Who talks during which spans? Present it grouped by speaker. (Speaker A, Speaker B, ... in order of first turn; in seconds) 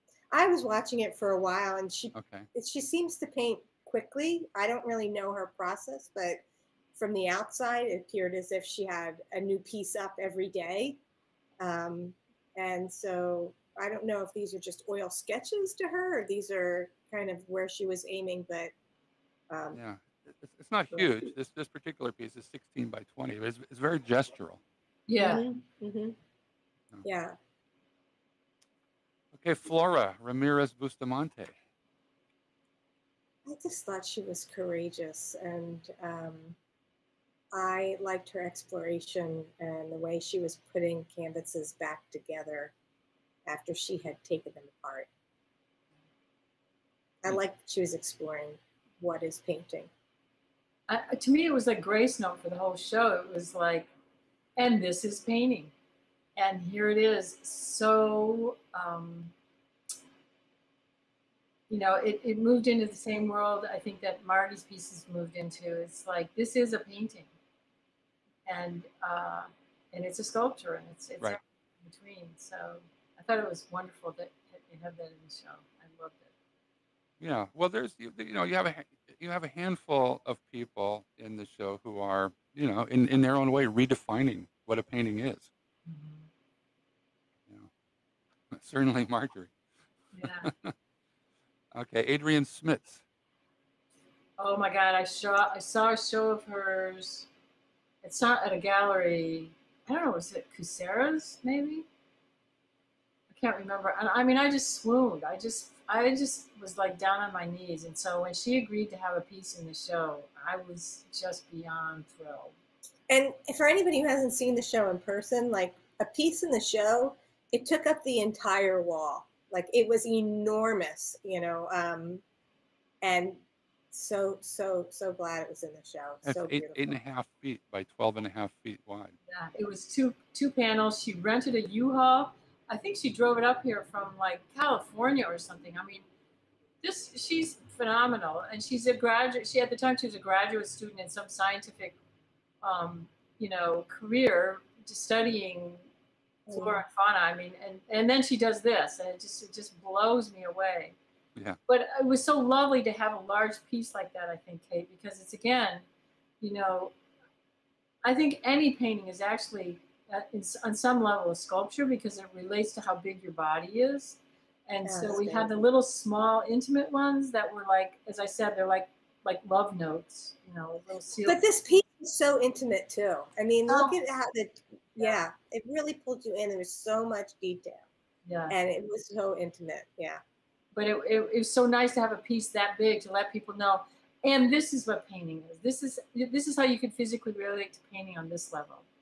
Speaker A: 0.3-6.4, 7.0-11.0, 11.6-18.7, 19.5-19.8, 25.2-26.2, 27.0-27.4, 33.5-36.6, 37.5-42.7, 43.5-45.1, 47.2-49.9, 113.1-122.2, 123.0-127.0, 146.5-146.8, 164.8-165.5, 171.2-177.9, 178.5-180.2
Speaker B: 2.1-2.5, 19.7-24.6, 29.3-31.5, 77.2-85.5, 88.5-89.5, 90.4-90.7, 91.7-93.0, 126.3-129.2
Speaker C: 25.1-25.4, 50.9-53.9, 54.6-55.7, 56.4-59.3, 61.7-67.3, 68.5-76.3, 85.9-86.3, 90.1-90.5, 94.4-97.3, 98.0-101.9, 103.3-112.5, 129.3-136.1, 136.8-142.0, 142.6-145.8, 146.5-151.0, 151.7-155.9, 156.4-156.9, 158.0-171.4, 173.7-174.0, 178.3-178.6, 180.7-188.8